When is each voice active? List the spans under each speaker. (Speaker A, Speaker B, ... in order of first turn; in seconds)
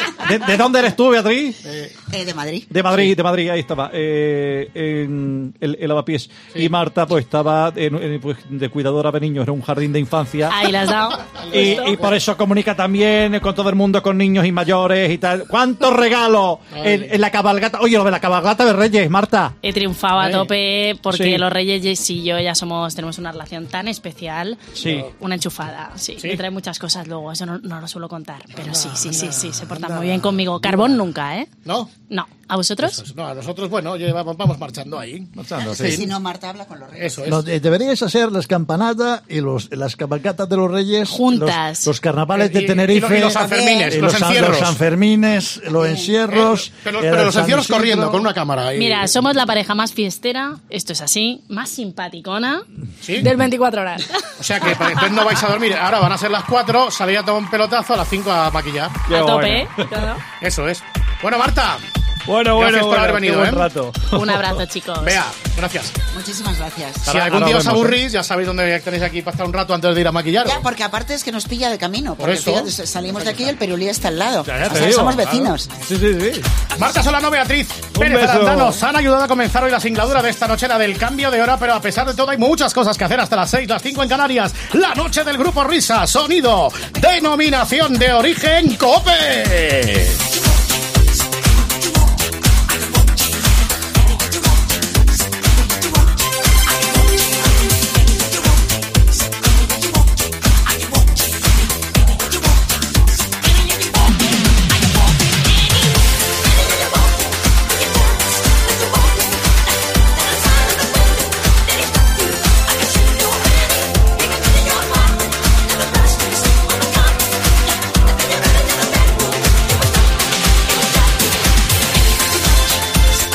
Speaker A: 0.2-1.6, 2.7-10.7, 11.5-19.6, 21.1-21.4, 24.7-25.1, 35.4-36.0, 42.5-43.2, 59.1-60.0, 62.3-64.6, 67.1-68.0, 74.7-75.2, 75.7-76.5, 77.9-78.8
Speaker B: 2.1-2.7, 35.6-37.3, 43.3-44.0, 45.7-46.1, 66.1-67.3, 70.4-75.7
Speaker C: 10.5-12.0, 19.6-31.5, 32.1-33.0, 41.0-41.9, 48.7-55.0, 59.1-60.2, 64.1-65.2
Speaker D: 11.6-11.9, 16.7-17.1, 20.2-20.5, 28.6-30.2, 31.6-31.9, 32.8-36.0, 37.0-37.4, 42.3-44.7, 46.3-49.1, 53.0-53.3, 54.4-59.0, 60.4-61.8, 62.5-63.7, 65.0-65.9, 67.0-70.6, 72.2-73.5, 74.5-75.5, 76.7-90.2
Speaker E: 29.3-30.6, 37.3-48.3